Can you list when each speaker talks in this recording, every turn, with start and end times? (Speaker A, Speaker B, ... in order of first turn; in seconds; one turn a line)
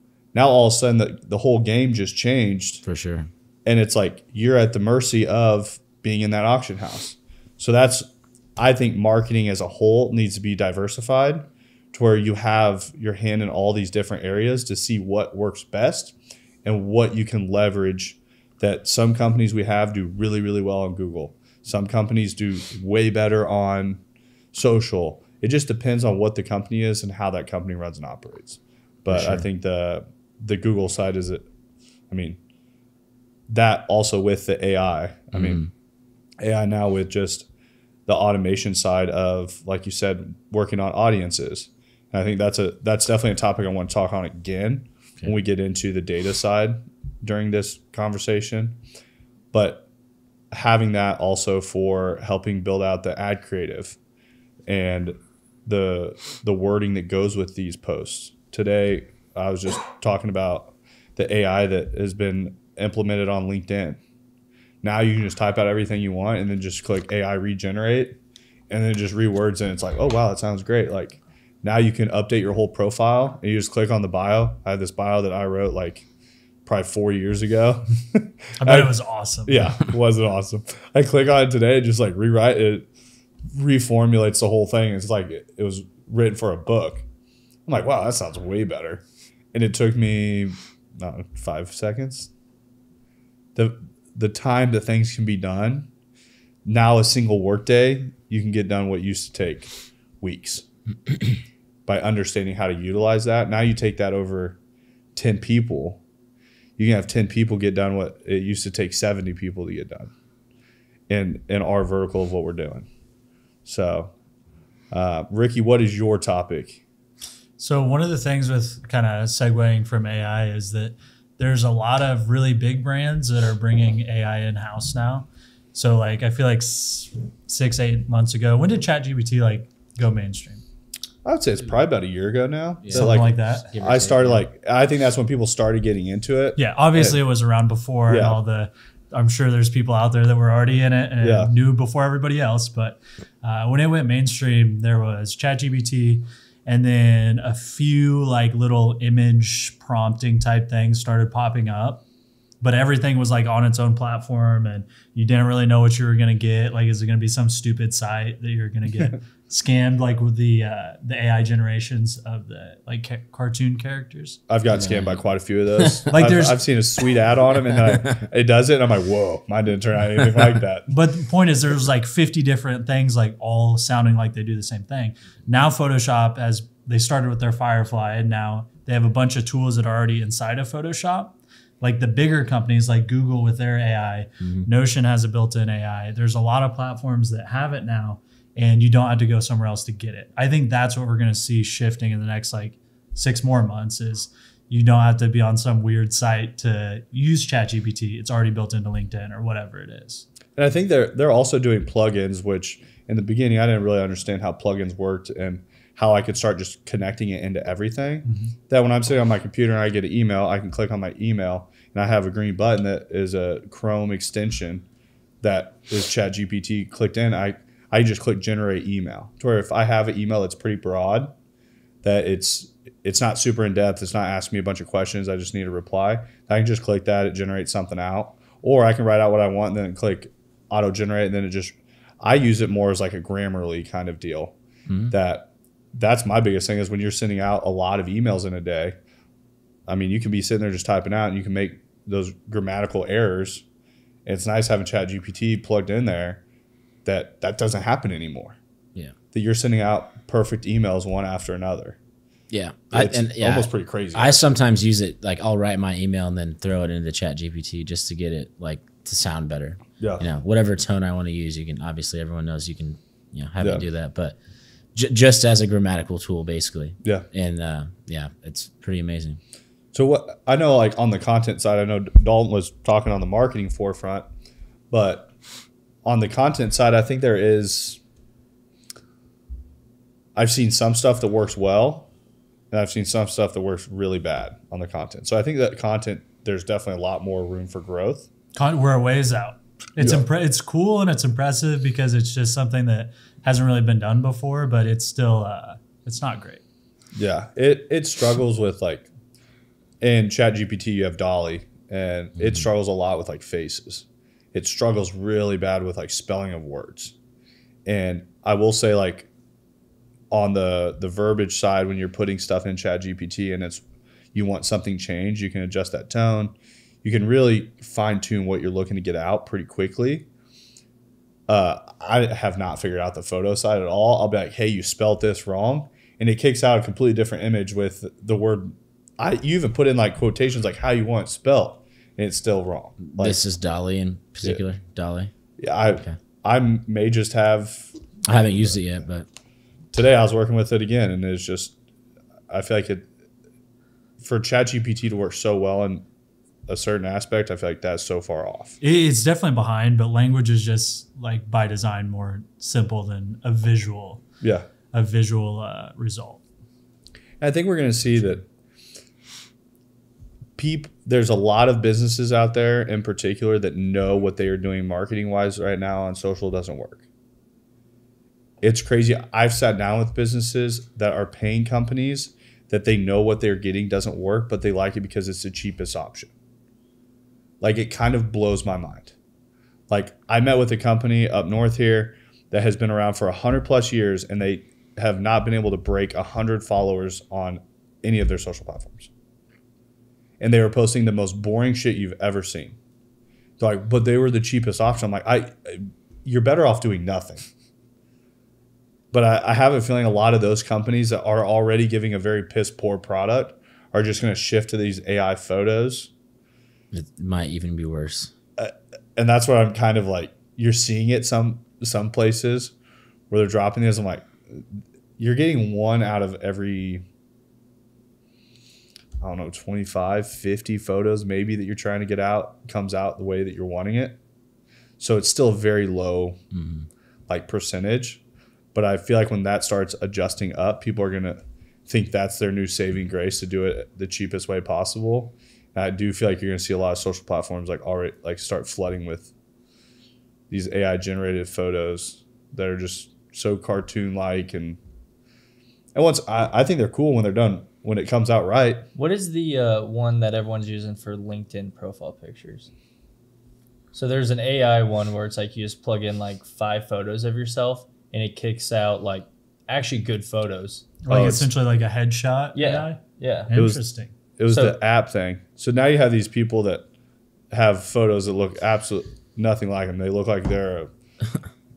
Speaker A: 0.3-2.8
Speaker B: 2.8-3.3
Speaker A: 3.6-24.0
Speaker A: 24.5-31.4
Speaker B: 29.1-29.4
Speaker A: 32.1-32.4
Speaker A: 33.5-35.6
Speaker B: 35.3-35.7
Speaker A: 36.4-37.5
Speaker A: 38.1-48.8
Speaker A: 49.5-49.9
Speaker A: 50.5-54.0
Speaker A: 54.7-64.0
Speaker A: 64.8-68.2
Speaker A: 68.7-76.1
Speaker A: 76.7-78.9
Speaker C: 78.6-79.6
Speaker A: 79.5-82.9
Speaker A: 83.5-87.0
Speaker A: 87.7-89.0
Speaker A: 89.5-92.3
Speaker A: 93.5-95.9
Speaker A: 96.7-100.7
Speaker A: 101.9-104.6
Speaker A: 105.2-106.0
Speaker A: 106.8-110.1
Speaker A: 111.1-112.9
Speaker A: 113.7-114.1
Speaker A: 114.9-116.8
Speaker C: 117.6-130.6
Speaker A: 131.2-137.2
Speaker B: 132.8-134.5
Speaker C: 132.9-133.7
Speaker C: 136.6-152.0
Speaker A: 138.1-138.4
Speaker A: 141.2-141.5
Speaker C: 152.6-164.4
Speaker A: 164.5-170.9
Speaker B: 164.7-165.2
Speaker B: 165.8-166.1
Speaker C: 166.1-166.6
Speaker B: 167.7-168.2
Speaker C: 170.9-200.3
Speaker B: 184.4-184.7
Speaker A: 200.6-214.8
Speaker C: 208.2-208.5
Speaker A: 215.4-221.3
Speaker A: 222.0-234.6
Speaker B: 234.9-235.1
Speaker A: 235.1-239.0
Speaker A: 239.9-243.6
Speaker A: 244.3-246.4
Speaker A: 247.1-248.6
Speaker A: 249.3-252.0
Speaker B: 252.5-264.4
Speaker A: 252.9-254.4
Speaker A: 260.0-260.3
Speaker A: 263.6-263.9
Speaker B: 264.9-269.4
Speaker A: 269.9-274.3
Speaker A: 274.9-275.3
Speaker A: 276.1-278.0
Speaker A: 280.4-282.1
Speaker A: 282.7-288.3
Speaker C: 288.6-296.6
Speaker A: 290.0-290.3
Speaker A: 297.1-299.1
Speaker A: 300.0-307.1
Speaker A: 307.9-309.3
Speaker A: 310.3-313.8
Speaker A: 314.3-320.3
Speaker A: 321.5-333.4
Speaker B: 333.1-335.3
Speaker A: 335.6-337.9
Speaker B: 338.3-339.3
Speaker A: 339.9-341.8
Speaker A: 342.5-343.1
Speaker A: 344.2-346.1
Speaker A: 346.7-348.8
Speaker C: 348.8-354.2
Speaker A: 354.4-354.7
Speaker C: 354.9-356.4
Speaker A: 357.4-358.5
Speaker A: 360.6-367.0
Speaker A: 368.6-376.3
Speaker A: 377.6-379.1
Speaker A: 379.9-389.1
Speaker A: 390.4-392.8
Speaker A: 393.6-397.4
Speaker A: 399.1-406.1
Speaker B: 406.9-408.3
Speaker A: 408.6-412.7
Speaker A: 413.3-417.0
Speaker A: 419.2-424.2
Speaker A: 425.0-426.4
Speaker B: 426.5-426.9
Speaker A: 427.3-428.2
Speaker A: 428.7-439.3
Speaker A: 440.5-444.8
Speaker A: 445.9-448.9
Speaker D: 448.9-452.7
Speaker D: 453.9-461.4
Speaker C: 461.0-464.1
Speaker A: 461.1-461.5
Speaker D: 462.6-463.5
Speaker A: 463.5-463.8
Speaker A: 464.4-466.9
Speaker D: 464.5-464.8
Speaker A: 467.5-470.9